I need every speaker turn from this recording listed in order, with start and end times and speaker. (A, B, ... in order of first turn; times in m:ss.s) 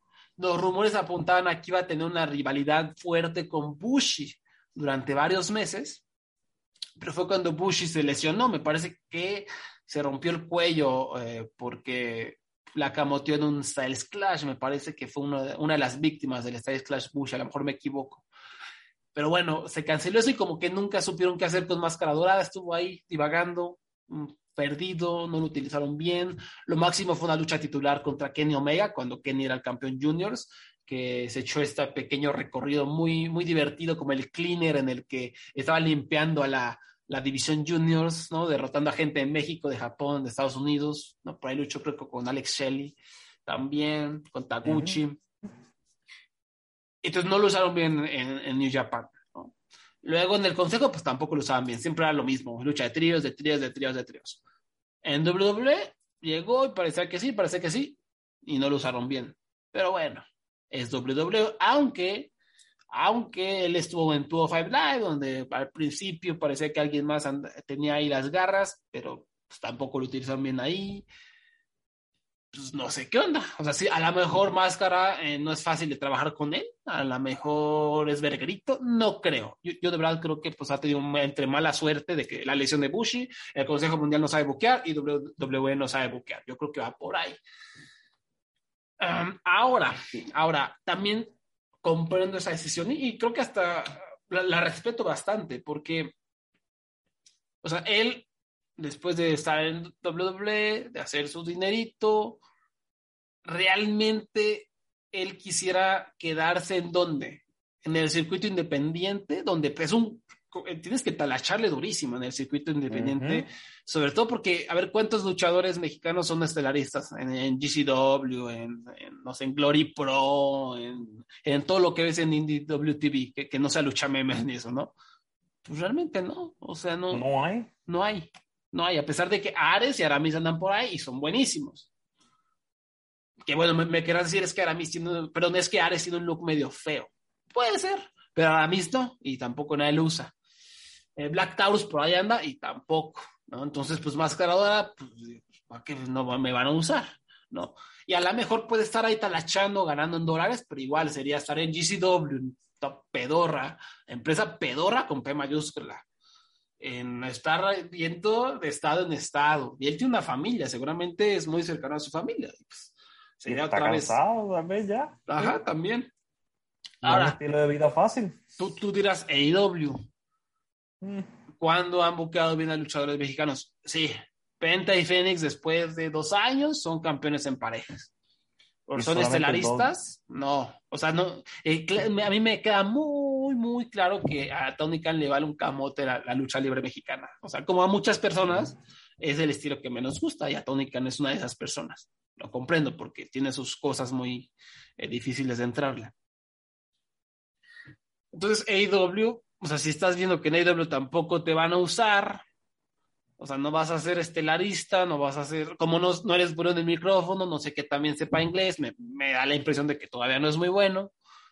0:00.4-0:06.0 A
0:07.0-0:18.3 A
0:19.1-0:45.2 A
0:44.7-0:45.0 B
0:47.0-0:54.4 A
0:55.0-1:02.3 A
1:02.9-1:11.1 A
1:12.5-1:27.4 A
1:29.0-1:36.1 A
1:37.6-1:38.3 A
1:38.8-1:42.4 A
1:43.4-2:04.9 A
1:52.9-1:53.4 B
2:05.6-2:07.2 A
2:07.1-2:07.7 B
2:07.9-2:11.9 A
2:13.4-2:20.3 A
2:21.2-2:36.0 A
2:36.8-2:44.2 A
2:43.5-2:45.6 B
2:45.3-2:46.1 A
2:47.0-2:47.4 A
2:47.0-2:48.4 B
2:48.6-2:50.0 A
2:51.0-2:51.3 B
2:51.6-2:58.1 A
2:58.9-3:16.1 A
2:59.0-2:59.9 B
3:18.3-3:22.4 A
3:23.4-3:31.1 A